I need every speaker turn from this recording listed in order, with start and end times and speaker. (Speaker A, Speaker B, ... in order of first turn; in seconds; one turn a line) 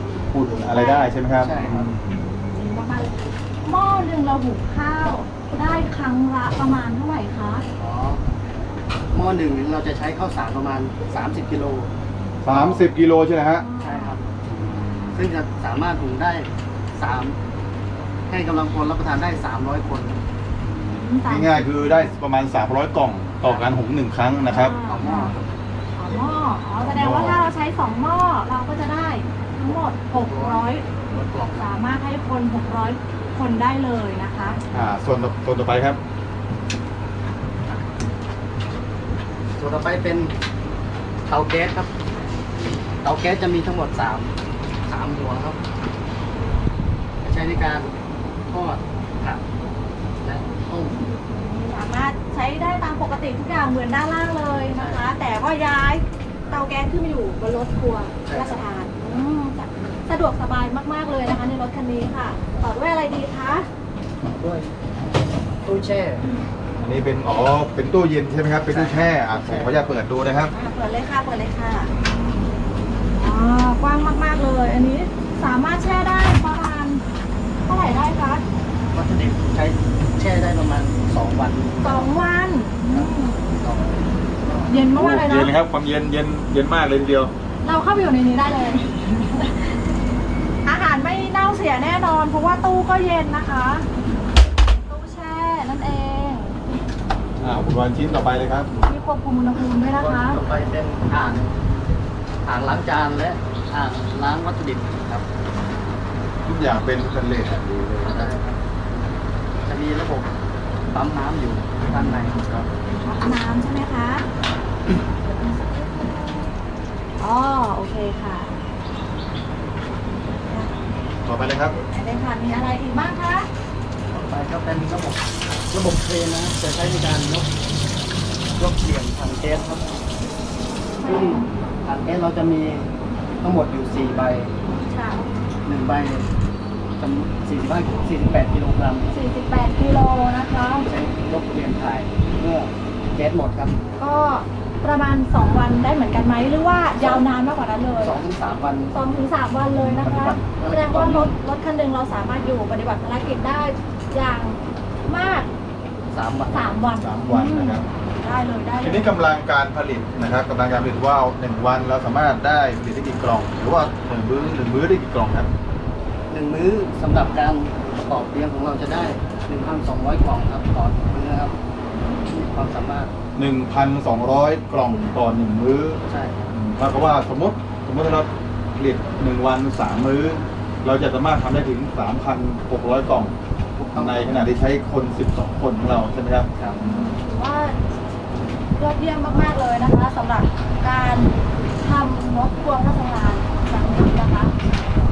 Speaker A: 0.2-2.2
Speaker B: 0.7-1.1
Speaker C: 1.4-1.9
Speaker B: 2.1-7.6
Speaker C: 7.8-8.2
Speaker C: 9.1-11.9
Speaker A: 12.4-13.7
Speaker C: 12.5-12.9
Speaker B: 13.6-14.1
Speaker C: 13.8-14.2
Speaker A: 14.5-15.2
Speaker C: 15.1-17.4
Speaker C: 18.3-20.2
Speaker A: 20.6-24.8
Speaker B: 20.9-22.1
Speaker C: 23.4-23.7
Speaker B: 24.5-25.4
Speaker C: 24.9-25.4
Speaker B: 25.9-30.9
Speaker A: 26.9-27.4
Speaker C: 30.2-31.6
Speaker B: 31.5-34.6
Speaker A: 34.7-36.0
Speaker C: 39.6-40.3
Speaker C: 41.3-41.9
Speaker C: 43.0-44.3
Speaker C: 44.9-45.6
Speaker C: 47.2-47.9
Speaker C: 48.5-49.4
Speaker C: 50.2-51.0
Speaker B: 51.1-63.7
Speaker C: 54.7-55.0
Speaker C: 58.2-58.6
Speaker C: 64.2-64.7
Speaker C: 65.6-66.2
Speaker A: 66.8-70.5
Speaker C: 68.7-69.8
Speaker B: 70.5-71.9
Speaker B: 73.1-77.0
Speaker B: 77.7-78.4
Speaker C: 78.9-82.1
Speaker B: 81.8-83.4
Speaker C: 82.9-84.8
Speaker B: 84.7-85.5
Speaker A: 85.0-87.3
Speaker B: 87.6-89.8
Speaker B: 90.6-93.9
Speaker B: 94.8-96.6
Speaker A: 97.4-98.7
Speaker B: 98.8-100.4
Speaker C: 100.0-101.5
Speaker C: 102.5-105.2
Speaker A: 106.4-108.2
Speaker C: 108.0-108.6
Speaker C: 109.7-110.3
Speaker C: 110.9-112.6
Speaker B: 113.0-114.2
Speaker B: 117.2-118.5
Speaker A: 121.2-121.7
Speaker B: 121.8-123.5
Speaker C: 124.1-127.5
Speaker C: 128.6-129.8
Speaker B: 131.0-131.5
Speaker C: 131.0-132.9
Speaker C: 133.4-134.5
Speaker B: 134.7-135.2
Speaker C: 135.6-136.2
Speaker C: 137.0-139.1
Speaker B: 139.1-140.9
Speaker C: 140.8-143.8
Speaker B: 144.0-148.2
Speaker C: 147.0-147.2
Speaker C: 148.0-148.9
Speaker B: 148.9-155.5
Speaker A: 149.8-150.3
Speaker C: 150.1-151.3
Speaker C: 156.1-156.7
Speaker B: 156.5-159.1
Speaker A: 157.0-157.8
Speaker A: 158.8-165.5
Speaker C: 166.3-171.5
Speaker C: 172.5-173.1
Speaker A: 173.3-183.3
Speaker C: 176.1-176.4
Speaker C: 183.8-184.5
Speaker A: 183.9-186.5
Speaker B: 186.8-187.8
Speaker B: 188.8-194.5